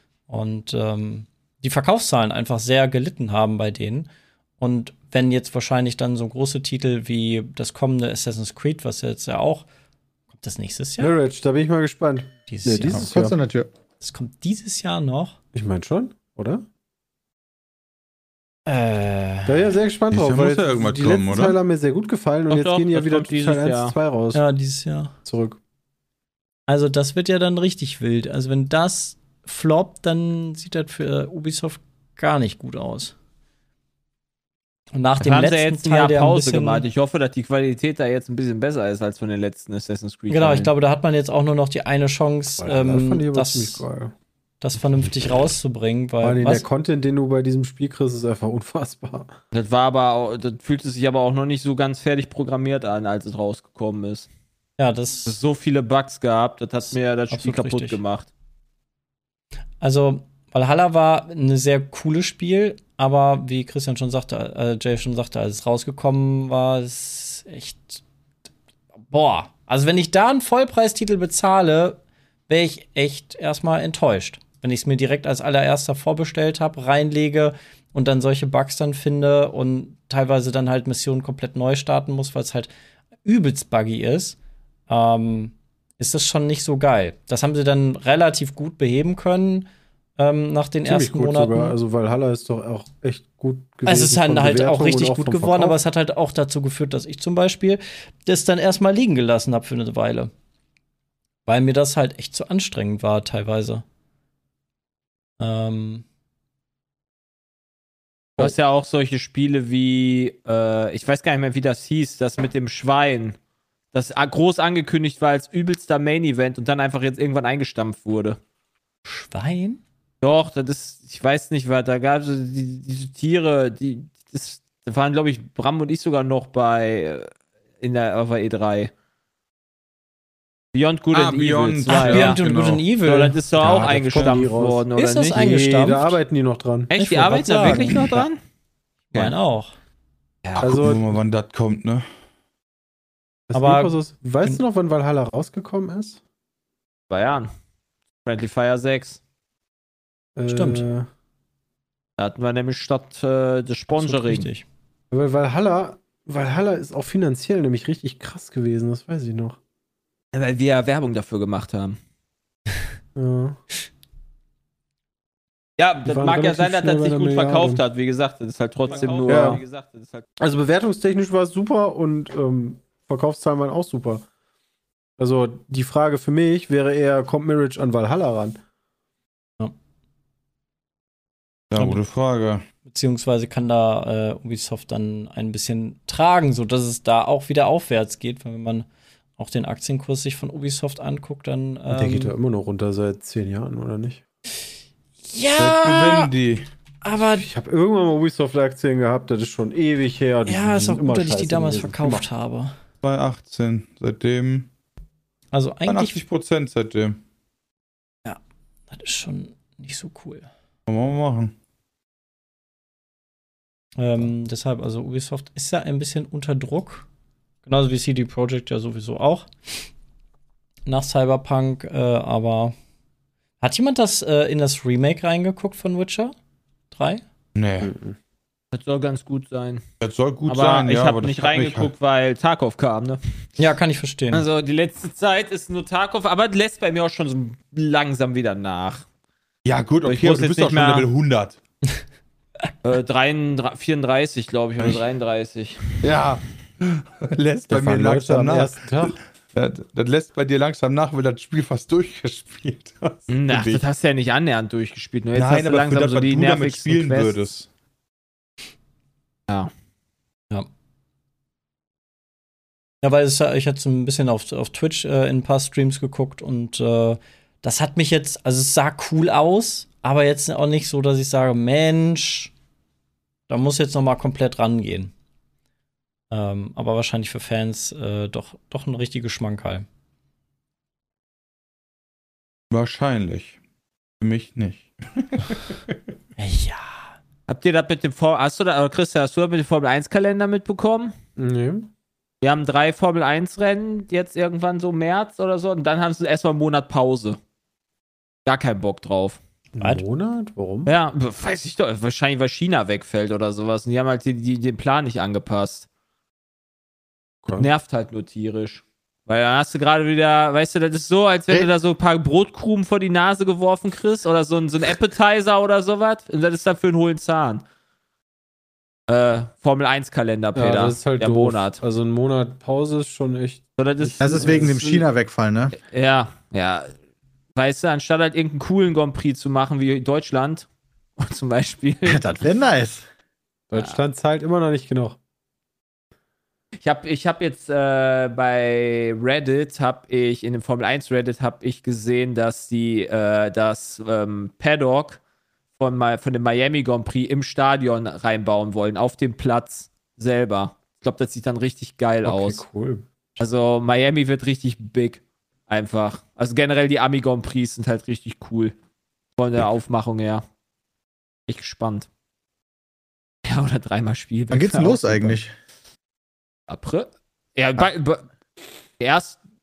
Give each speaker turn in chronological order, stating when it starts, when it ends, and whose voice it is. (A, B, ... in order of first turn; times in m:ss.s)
0:00.3-0:04.1 A
0:04.6-0:09.7 A
0:10.3-0:11.1 A
0:11.0-0:13.3 B
0:12.5-0:13.1 A
0:12.9-0:13.7 C
0:14.0-0:15.4 A
0:15.5-0:16.6 B
0:18.7-0:19.7 A
0:19.5-0:24.4 B
0:20.1-0:21.6 D
0:22.5-0:23.9 E
0:24.3-0:25.1 A
0:25.2-0:25.6 B
0:26.7-0:33.1 A
0:34.9-0:36.8 A
0:35.2-0:40.7 E
0:40.3-0:43.8 A
0:42.6-0:44.1 B
0:44.6-0:46.6 A
0:46.2-0:49.3 B
0:49.5-0:54.3 E
0:54.8-0:55.4 A
0:55.2-0:58.3 E
0:56.8-0:58.0 A
0:59.8-1:08.0 A
1:09.1-1:22.7 A
1:23.2-1:24.4 A
1:24.9-1:29.7 A
1:30.2-1:31.8 A
1:30.8-1:35.8 B
1:33.8-1:40.3 A
1:41.4-1:43.8 A
1:45.4-1:46.0 A
1:48.4-1:53.4 E
1:53.9-1:58.4 E
1:59.0-1:59.8 A
2:00.2-2:07.3 E
2:07.8-2:08.9 E
2:10.7-2:12.4 E
2:11.1-2:12.8 D
2:11.9-2:13.9 A
2:13.0-2:15.4 E
2:13.6-2:16.9 B
2:14.1-2:14.4 D
2:15.0-2:16.2 A
2:16.9-2:18.4 E
2:16.9-2:18.2 A
2:19.1-2:19.7 A
2:20.4-2:20.7 E
2:20.6-2:22.0 D
2:20.6-2:21.1 B
2:23.5-2:26.2 B
2:23.5-2:24.6 A
2:27.1-2:27.5 E
2:28.2-2:29.2 E
2:30.4-2:31.1 B
2:30.5-2:30.9 A
2:32.2-2:34.5 E
2:33.9-2:34.6 A
2:35.1-2:39.6 B
2:40.3-2:42.0 E
2:43.2-2:43.6 B
2:45.8-2:50.2 E
2:46.0-2:47.8 B
2:48.8-2:49.6 B
2:49.0-2:49.6 A
2:50.4-2:54.2 B
2:55.2-2:58.6 B
3:01.7-3:02.6 D
3:02.8-3:08.8 A
3:09.4-3:12.3 A
3:11.9-3:14.2 B
3:15.3-3:16.3 A
3:15.6-3:16.7 D
3:17.0-3:17.5 A
3:17.2-3:22.2 B
3:20.4-3:22.7 A
3:23.0-3:24.7 D
3:25.5-3:26.2 A
3:25.8-3:27.2 D
3:28.2-3:30.5 A
3:30.9-3:31.5 D
3:34.0-3:37.0 A
3:37.6-3:39.5 A
3:40.8-3:42.7 A
3:43.6-3:46.3 A
3:46.9-3:47.2 A
3:47.5-3:47.9 D
3:47.8-3:48.2 B
3:48.7-3:49.8 E
3:50.0-3:51.9 D
3:50.5-3:53.2 E
3:53.6-3:54.4 A
3:54.3-3:59.0 E
3:59.6-4:01.6 D
4:00.0-4:01.1 E
4:02.8-4:06.1 E
4:06.0-4:13.8 D
4:07.7-4:09.2 B
4:13.3-4:17.4 E
4:15.3-4:17.7 D
4:23.0-4:32.5 A
4:33.5-4:35.1 A
4:36.3-4:39.8 A
4:42.7-4:43.6 D
4:44.2-4:45.9 D
4:46.4-4:47.0 A
4:47.5-4:51.1 E
4:51.4-4:51.9 B
4:52.4-4:57.4 E
4:58.4-4:59.4 E
4:59.8-5:00.9 B
4:59.8-5:00.0 A
5:00.8-5:05.8 E
5:07.4-5:07.7 B
5:07.5-5:17.6 E
5:19.1-5:21.8 E
5:20.5-5:24.8 B
5:23.8-5:25.0 E
5:24.2-5:25.8 C
5:25.8-5:26.9 E
5:27.5-5:30.6 E
5:31.2-5:32.2 E
5:32.0-5:33.0 C
5:33.7-5:35.2 B
5:36.8-5:45.2 E
5:45.8-5:52.6 E
5:52.2-5:53.0 B
5:53.4-5:58.7 E
5:59.4-6:00.4 E
6:01.5-6:02.1 E
6:03.4-6:05.4 E
6:04.5-6:05.5 C
6:06.7-6:08.2 E
6:09.0-6:09.4 E